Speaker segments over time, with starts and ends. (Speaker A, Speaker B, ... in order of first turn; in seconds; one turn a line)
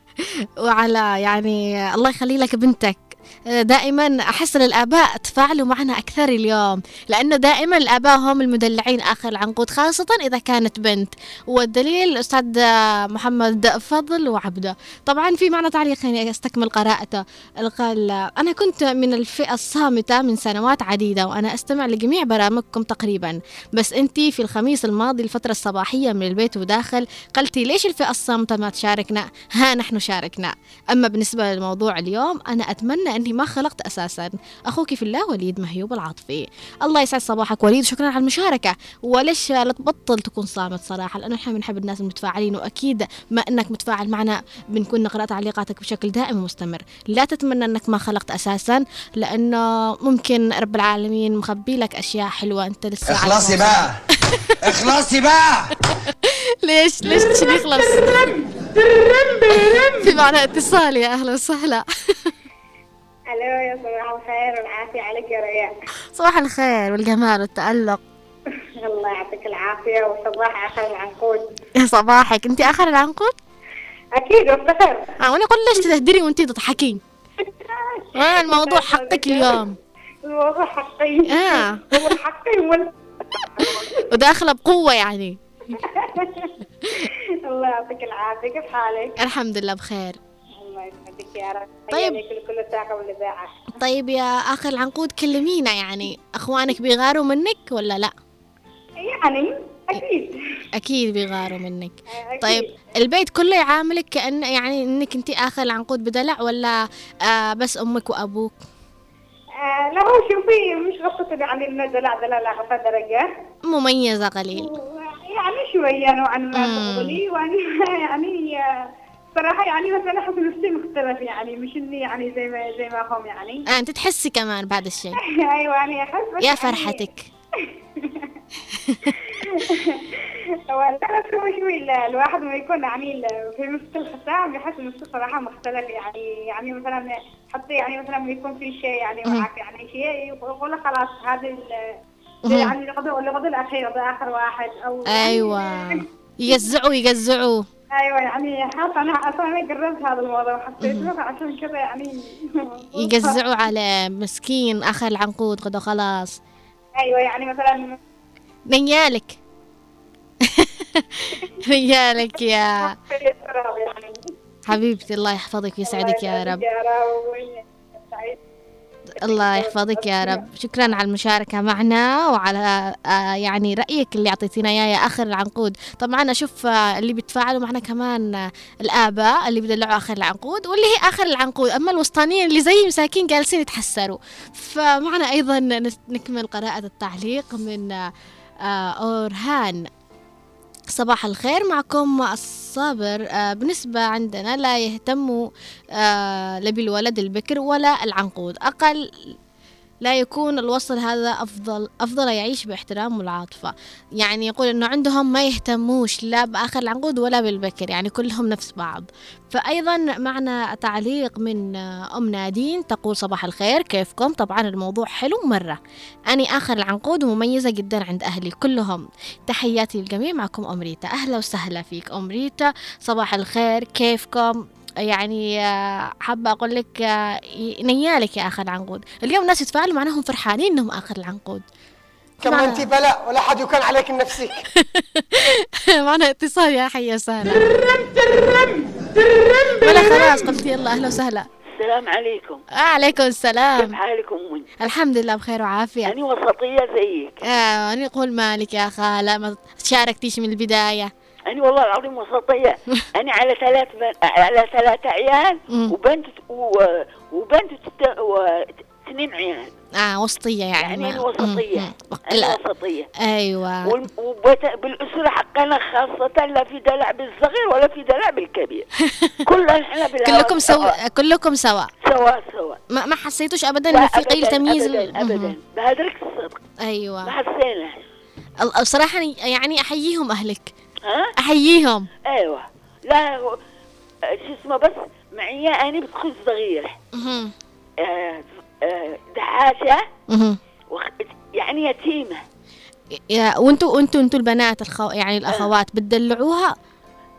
Speaker A: 0.2-54.5
Speaker B: 53.1-54.0
Speaker B: 54.7-55.7
Speaker A: 55.9-58.2
Speaker A: 59.5-62.3
Speaker C: 63.3-65.7
Speaker A: 66.1-68.0
Speaker C: 68.8-71.4
Speaker A: 71.8-73.3
Speaker C: 74.2-75.1
Speaker A: 75.2-77.0
Speaker C: 77.4-79.6
Speaker A: 78.1-79.7
Speaker C: 80.2-84.1
Speaker A: 81.3-82.1
Speaker A: 84.0-85.4
Speaker C: 85.7-89.1
Speaker A: 89.2-90.2
Speaker C: 90.6-93.7
Speaker A: 91.9-92.2
Speaker A: 93.8-98.1
Speaker C: 99.0-100.3
Speaker A: 100.8-108.5
Speaker C: 102.1-102.7
Speaker C: 109.6-113.3
Speaker A: 113.7-114.7
Speaker C: 114.5-118.6
Speaker A: 116.5-117.2
Speaker C: 119.3-123.7
Speaker A: 123.7-125.2
Speaker C: 125.5-127.0
Speaker A: 126.4-127.3
Speaker C: 128.0-128.3
Speaker A: 128.8-129.1
Speaker C: 129.1-130.1
Speaker C: 130.7-141.7
Speaker C: 142.4-146.7
Speaker A: 142.5-142.7
Speaker A: 145.1-147.6
Speaker C: 147.9-152.1
Speaker A: 150.8-151.1
Speaker C: 152.7-153.4
Speaker A: 152.9-156.4
Speaker C: 157.0-158.0
Speaker A: 158.7-159.4
Speaker A: 160.4-162.9
Speaker C: 162.8-164.3
Speaker A: 164.7-166.6
Speaker C: 165.8-168.4
Speaker A: 169.2-188.0
Speaker C: 169.2-170.4
Speaker A: 188.6-189.8
Speaker A: 190.9-195.4
Speaker A: 195.9-199.3
Speaker A: 200.0-215.8
Speaker A: 216.3-231.6
Speaker D: 232.4-234.5
Speaker A: 232.4-232.9
Speaker A: 234.8-237.6
Speaker A: 239.8-241.4
Speaker E: 241.8-242.6
Speaker A: 242.7-243.9
Speaker E: 243.8-244.7
Speaker A: 244.8-246.1
Speaker E: 246.1-247.5
Speaker A: 247.4-251.1
Speaker E: 251.5-259.7
Speaker A: 260.0-262.6
Speaker E: 260.8-263.1
Speaker A: 263.2-263.9
Speaker E: 263.8-268.9
Speaker A: 269.0-269.4
Speaker E: 269.4-270.9
Speaker A: 270.2-271.9
Speaker E: 272.0-272.8
Speaker A: 272.9-275.5
Speaker E: 273.9-276.6
Speaker A: 276.8-277.3
Speaker E: 277.2-278.1
Speaker A: 278.6-280.7
Speaker E: 281.0-281.3
Speaker A: 281.4-282.1
Speaker E: 282.3-283.6
Speaker E: 284.3-286.9
Speaker A: 287.1-287.5
Speaker E: 288.0-290.0
Speaker A: 290.3-290.6
Speaker E: 290.9-292.4
Speaker A: 293.1-296.7